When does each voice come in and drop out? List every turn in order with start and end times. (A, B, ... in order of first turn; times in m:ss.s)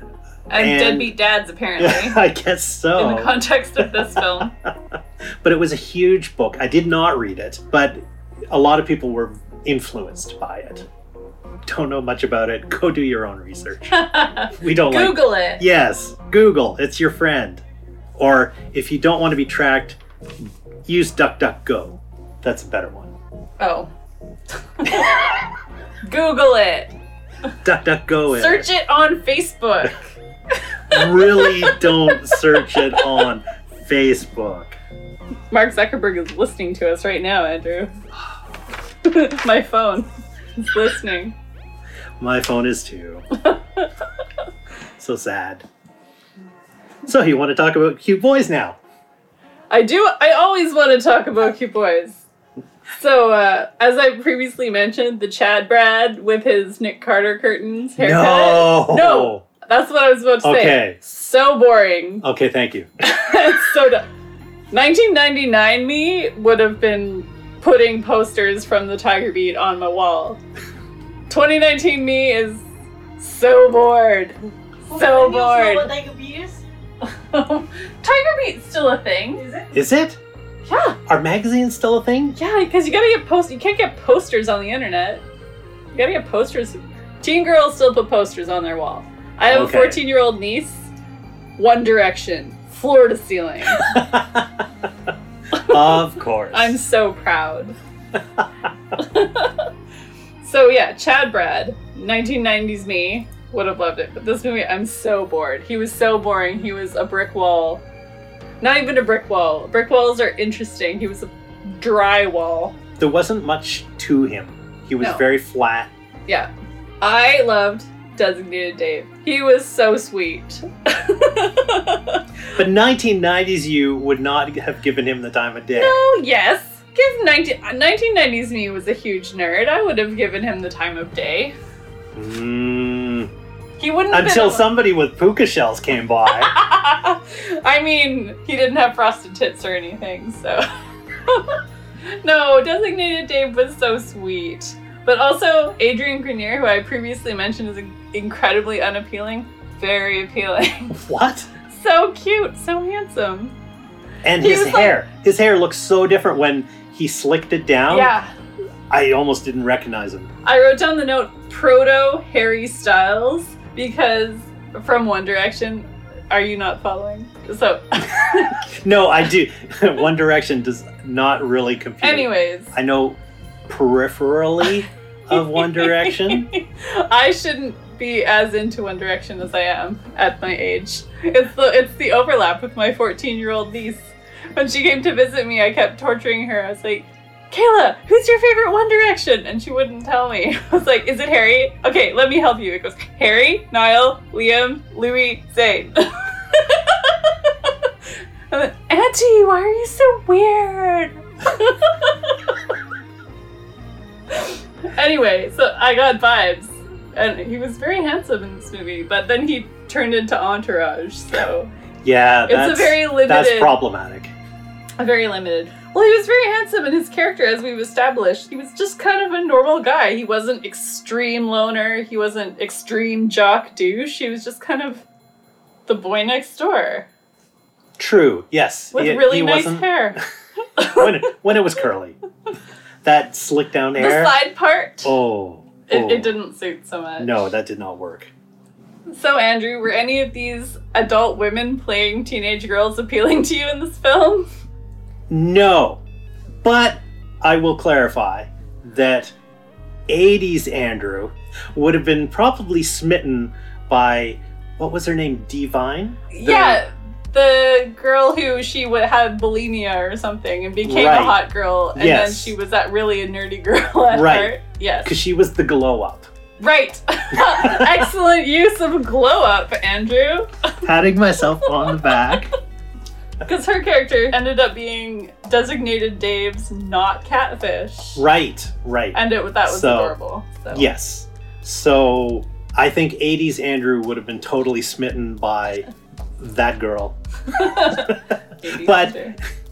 0:00.5-0:02.2 A
0:00.5-0:01.1 B
0:01.8-0:10.9 B
0:03.0-0:04.5 A
0:11.6-0:17.6 B
0:13.9-0:15.6 A
0:18.2-0:23.1 B
0:23.6-0:23.9 A
0:24.8-0:25.3 A
0:26.0-0:26.9 A
0:27.6-0:28.6 B
0:28.3-0:30.0 A
0:30.9-0:32.9 A
0:30.9-0:34.8 B
0:35.5-0:37.9 A
0:39.0-0:41.3 A
0:42.2-0:43.2 B
0:43.4-0:43.9 A
0:45.0-0:45.6 B
0:47.0-0:48.8 B
0:49.7-0:52.2 A
0:53.0-1:02.2 A
0:58.0-0:59.4 B
1:00.4-1:01.0 B
1:02.2-1:02.9 B
1:03.0-1:04.0 A
1:04.7-1:10.4 A
1:11.3-1:12.6 A
1:13.2-1:14.4 A
1:14.9-1:16.6 C
1:14.9-1:15.9 A
1:17.0-1:19.4 A
1:19.3-1:19.8 C
1:19.7-1:20.2 B
1:20.6-1:21.0 A
1:21.1-1:22.4 B
1:22.3-1:25.2 A
1:25.9-1:30.9 A
1:29.5-1:30.0 B
1:31.6-1:34.0 A
1:33.8-1:34.6 B
1:35.5-1:36.0 A
1:35.6-1:36.8 B
1:36.5-1:37.8 A
1:39.0-1:39.7 A
1:40.4-1:47.8 A
1:48.6-1:52.8 A
1:53.0-1:55.9 B
1:55.0-1:55.2 A
1:56.3-2:02.2 A
2:02.6-2:06.0 B
2:05.7-2:11.5 A
2:12.1-2:13.3 B
2:13.8-2:14.7 A
2:14.1-2:16.5 B
2:16.3-2:20.6 A
2:21.2-2:31.0 A
2:30.9-2:31.5 B
2:31.7-2:33.5 A
2:34.2-2:38.1 B
2:34.4-2:35.0 A
2:37.9-2:38.3 A
2:38.9-2:40.3 B
2:40.4-2:48.6 A
2:48.6-2:56.5 B
2:52.0-2:52.7 A
2:55.3-3:17.9 A
3:18.5-3:22.6 A
3:24.3-3:31.7 A
3:32.0-3:34.3 B
3:32.5-3:33.8 A
3:35.0-3:45.0 A
3:45.9-3:47.1 A
3:48.0-3:50.2 B
3:48.9-3:50.2 A
3:50.8-3:51.1 A
3:50.9-3:52.2 B
3:53.0-3:54.3 B
3:54.0-3:55.1 A
3:55.0-3:56.3 B
3:55.9-3:57.3 A
3:57.2-3:58.3 B
3:59.1-4:04.5 A
4:05.3-4:06.0 B
4:06.6-4:09.3 B
4:10.1-4:16.8 B
4:16.3-4:25.1 A
4:20.8-4:21.4 B
4:21.9-4:22.5 B
4:24.1-4:26.3 B
4:26.6-4:30.7 A
4:27.3-4:28.1 B
4:30.8-4:32.5 B
4:31.7-4:32.4 A
4:33.4-4:38.2 A
4:38.2-4:40.2 B
4:39.1-4:40.9 A
4:40.7-4:45.8 B
4:46.4-4:49.2 B
4:47.5-4:49.4 A